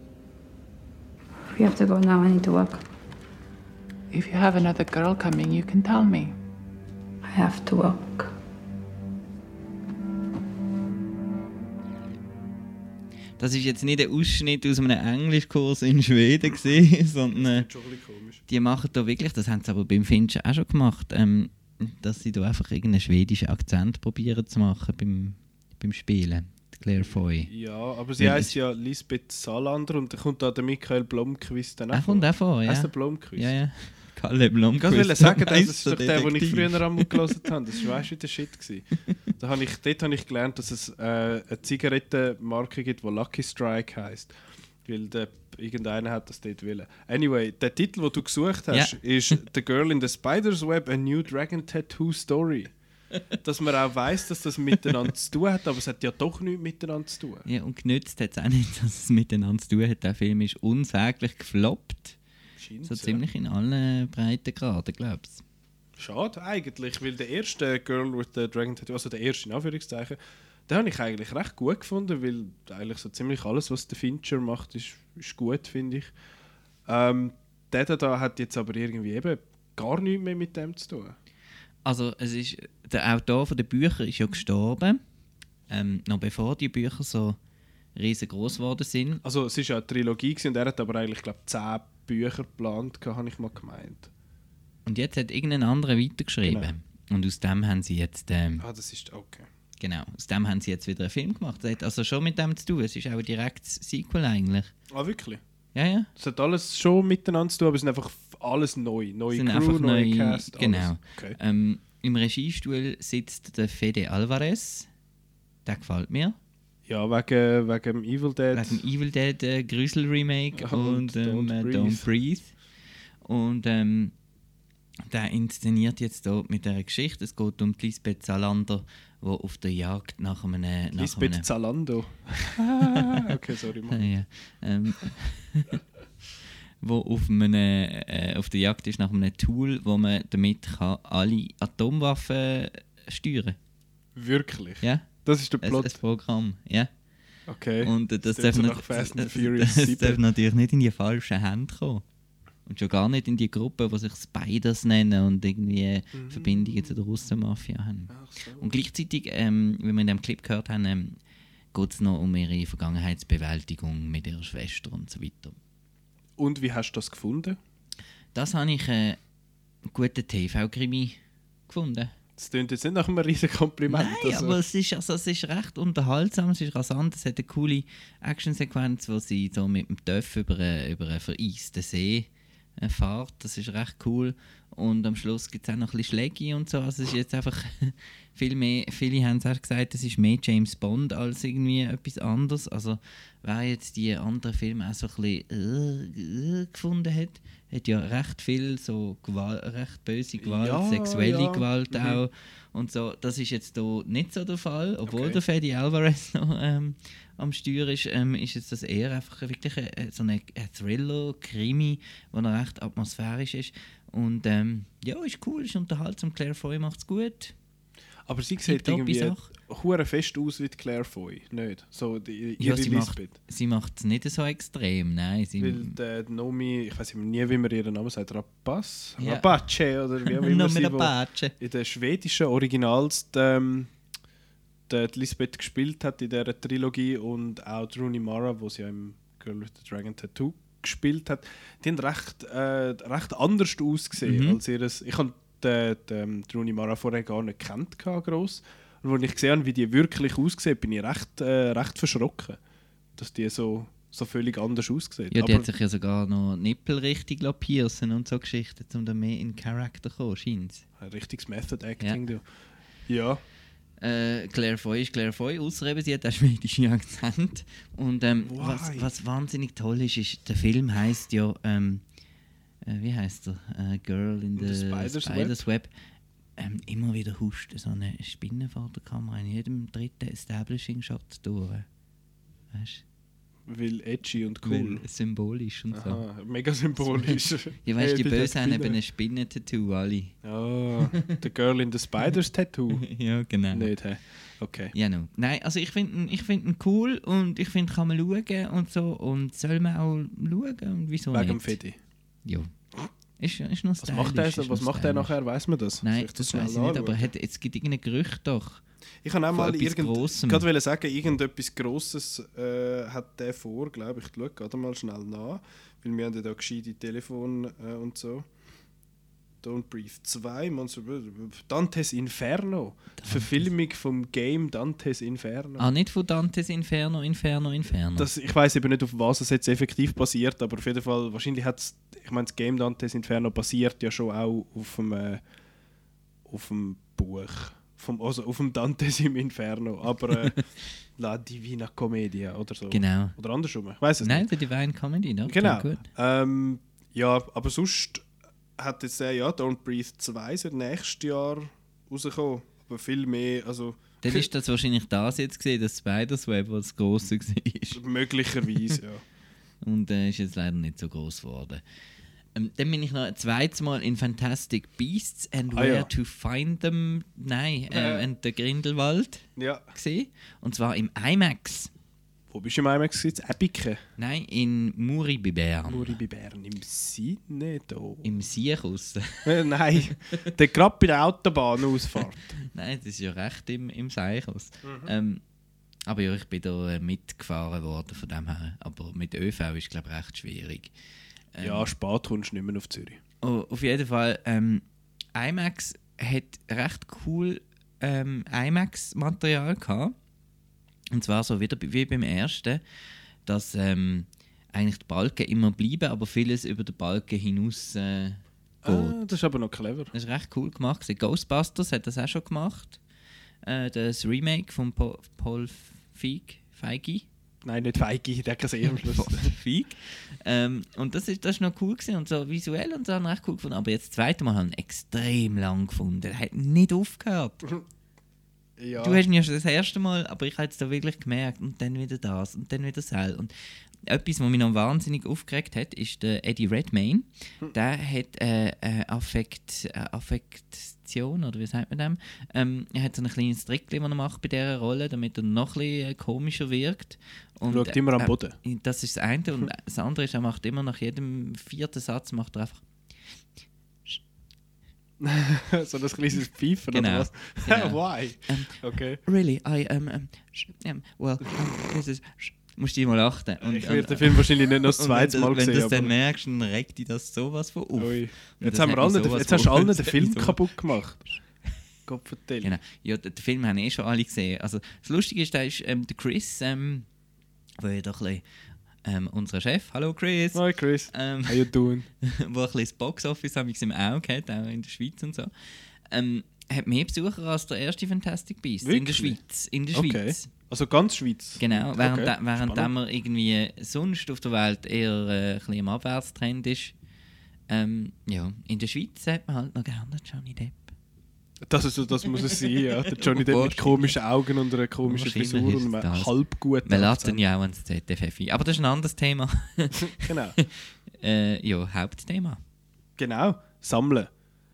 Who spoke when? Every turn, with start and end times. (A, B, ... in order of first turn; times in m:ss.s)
0:01.5-0:02.8 A
0:04.1-0:06.3 B
0:07.2-0:08.3 A
0:13.4-0:17.7 C
0:17.3-0:18.4 D
0:18.5-0:27.5 C
0:27.0-0:33.5 D
0:28.2-0:28.5 C
0:31.9-0:37.9 C
0:34.8-0:44.3 D
0:44.8-0:52.7 D
0:48.7-0:49.4 C
0:53.4-0:57.4 D
0:57.5-1:02.2 C
1:02.6-1:03.2 D
1:02.8-1:05.4 C
1:06.0-1:16.1 D
1:16.9-1:21.2 D
1:21.8-1:25.0 C
1:25.7-1:27.4 C
1:28.0-1:29.2 C
1:29.2-1:34.1 D
1:34.8-1:38.6 C
1:36.4-1:36.7 D
1:38.6-1:39.5 D
1:39.8-1:44.7 C
1:44.9-1:45.4 D
1:45.7-1:46.1 C
1:46.2-1:51.4 D
1:49.3-1:54.9 C
1:55.6-1:56.4 C
1:56.9-1:58.8 D
1:58.5-2:02.5 C
2:00.5-2:02.1 D
2:03.2-2:04.1 C
2:05.1-2:11.5 C
2:10.9-2:14.1 D
2:13.9-2:15.8 C
2:16.8-2:23.6 C
2:24.2-2:26.0 D
2:24.8-2:25.1 C
2:25.6-2:26.9 C
2:27.5-2:30.2 D
2:27.8-2:32.0 C
2:32.7-2:41.2 C
2:36.1-2:36.9 D
2:38.1-2:38.7 D
2:41.7-2:45.6 C
2:46.4-2:47.6 D
2:48.3-2:49.2 C
2:49.9-2:52.1 C
2:52.4-2:54.6 D
2:53.9-3:37.5 C
3:20.4-3:22.2 D
3:25.1-3:25.4 D
3:38.2-3:43.3 D
3:38.6-3:39.5 C
3:42.6-3:46.0 C
3:45.6-3:53.9 D
3:49.2-3:49.5 C
3:50.2-3:51.5 C
3:54.9-4:12.6 D
4:04.2-4:04.6 C
4:13.2-4:15.7 D
4:15.3-4:20.8 C
4:21.0-4:22.4 D
4:23.1-4:23.4 D
4:24.0-4:32.0 C
4:28.4-4:29.1 D
4:32.8-4:35.9 C
4:34.6-4:35.6 D
4:36.6-4:41.8 C
4:42.7-4:43.0 C
4:43.6-4:45.0 D
4:44.6-4:46.2 C
4:45.9-4:49.0 D
4:47.8-4:50.3 C
4:50.4-4:53.1 D
4:53.0-4:53.9 C
4:53.7-4:54.9 D
4:54.9-5:01.8 C
5:01.3-5:02.0 D
5:02.4-5:02.7 C
5:03.4-5:05.3 C
5:04.0-5:07.3 D
5:06.0-5:08.8 C
5:09.2-5:18.5 D
5:09.5-5:10.6 C
5:19.6-5:25.9 D
5:23.2-5:23.6 C
5:25.8-5:28.3 C
5:28.2-5:35.4 D
5:36.4-5:40.6 D
5:41.2-5:44.5 D
5:42.9-5:43.3 C
5:44.2-5:46.0 C
5:45.4-5:48.2 D
5:48.8-5:54.5 D
5:54.2-5:58.0 C
5:57.9-5:59.2 D
5:59.8-6:01.8 C
6:02.5-6:11.9 C
6:05.7-6:06.1 D
6:07.9-6:08.3 D
6:09.6-6:09.8 D
6:12.5-6:14.0 D
6:14.2-6:16.2 C
6:15.8-6:18.3 D
6:18.2-6:19.5 C
6:19.4-6:22.5 D
6:22.7-6:25.4 C
6:24.8-6:25.1 D
6:26.1-6:30.9 C
6:31.5-6:31.9 C
6:31.6-6:33.2 D
6:33.4-6:34.8 C
6:35.3-6:40.1 C
6:41.1-6:42.8 C
6:43.4-6:49.3 C
6:48.8-6:50.1 D
6:50.1-6:53.0 C
6:53.6-6:57.2 C
6:57.6-6:59.5 D
6:59.1-7:07.6 C
7:08.8-7:09.2 D
7:09.0-7:13.5 C
7:14.1-7:32.8 C
7:27.7-7:28.6 D
7:35.2-7:39.2 D
7:36.9-7:50.6 C
7:43.6-7:46.1 D
7:48.0-7:51.2 D
7:52.0-7:52.8 D
7:52.6-7:57.0 C
7:57.8-7:58.4 C
7:59.0-8:01.6 C
8:00.5-8:02.0 D
8:02.2-8:05.5 C
8:06.1-8:10.5 C
8:08.8-8:09.4 D
8:09.9-8:12.9 D
8:11.6-8:16.9 C
8:17.7-8:20.9 C
8:21.6-8:27.4 D
8:23.2-8:24.2 C
8:25.0-8:30.7 C
8:30.1-8:30.6 D
8:31.2-8:32.6 C
8:33.2-8:34.3 D